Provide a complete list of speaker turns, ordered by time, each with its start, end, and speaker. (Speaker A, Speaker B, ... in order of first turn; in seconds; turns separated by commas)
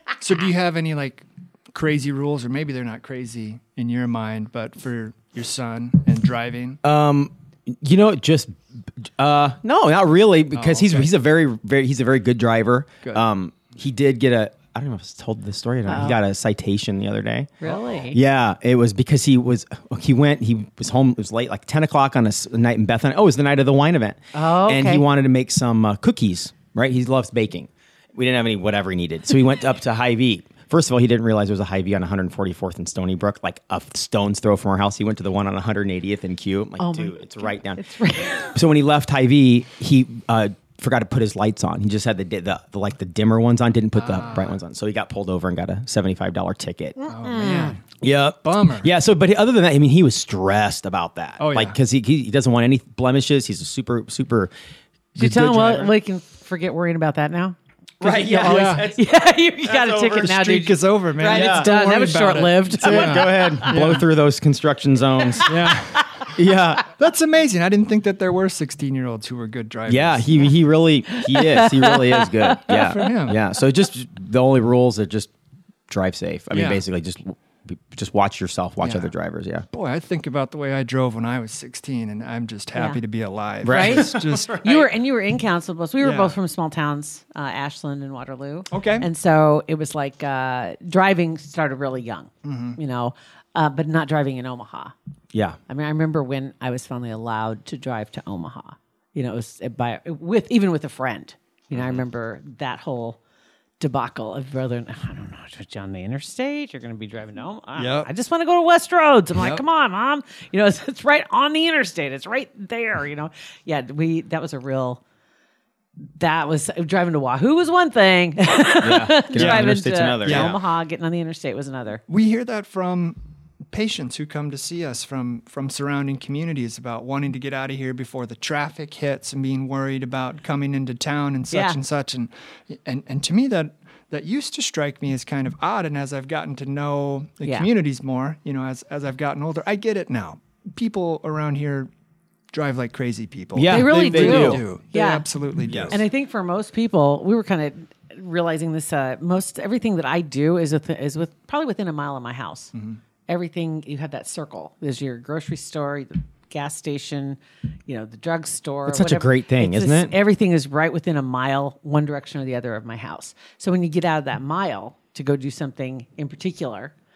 Speaker A: 0.2-6.8, Speaker B: 6.8-17.5, Speaker A: 10.5-11.1, Speaker C: 15.9-16.2, Speaker C: 17.6-18.2, Speaker B: 18.1-47.0, Speaker C: 24.3-25.0, Speaker C: 36.8-38.5, Speaker A: 43.9-44.6, Speaker C: 47.0-47.8, Speaker A: 47.1-48.9, Speaker B: 48.0-54.5, Speaker A: 51.4-51.8, Speaker B: 55.1-55.9, Speaker C: 55.1-63.4, Speaker B: 58.0-60.4, Speaker A: 58.4-58.9, Speaker A: 60.2-64.1, Speaker B: 61.2-61.7, Speaker B: 62.8-65.5, Speaker A: 65.4-66.3, Speaker B: 66.3-66.9, Speaker A: 66.9-70.3, Speaker B: 69.9-75.3, Speaker C: 71.1-72.6, Speaker A: 72.7-73.4, Speaker B: 75.9-79.7, Speaker A: 76.5-76.8, Speaker A: 78.8-79.1, Speaker A: 79.7-84.6, Speaker C: 82.7-83.0, Speaker B: 83.6-84.9, Speaker C: 83.7-94.9, Speaker A: 86.0-86.4, Speaker A: 88.7-89.1, Speaker A: 92.4-92.8, Speaker B: 95.3-95.6, Speaker C: 95.7-103.2, Speaker B: 101.7-102.0, Speaker C: 103.8-115.0, Speaker A: 107.8-108.1, Speaker A: 109.3-109.6, Speaker C: 116.2-122.0, Speaker B: 118.8-120.6, Speaker A: 119.3-119.7, Speaker A: 120.2-120.5, Speaker A: 122.1-123.2, Speaker A: 123.7-141.9, Speaker C: 131.5-131.8, Speaker A: 142.5-146.0, Speaker B: 143.5-144.6, Speaker C: 143.7-145.3, Speaker B: 145.7-146.0, Speaker C: 145.9-152.7, Speaker A: 152.7-153.0, Speaker C: 153.3-166.9, Speaker B: 158.9-160.1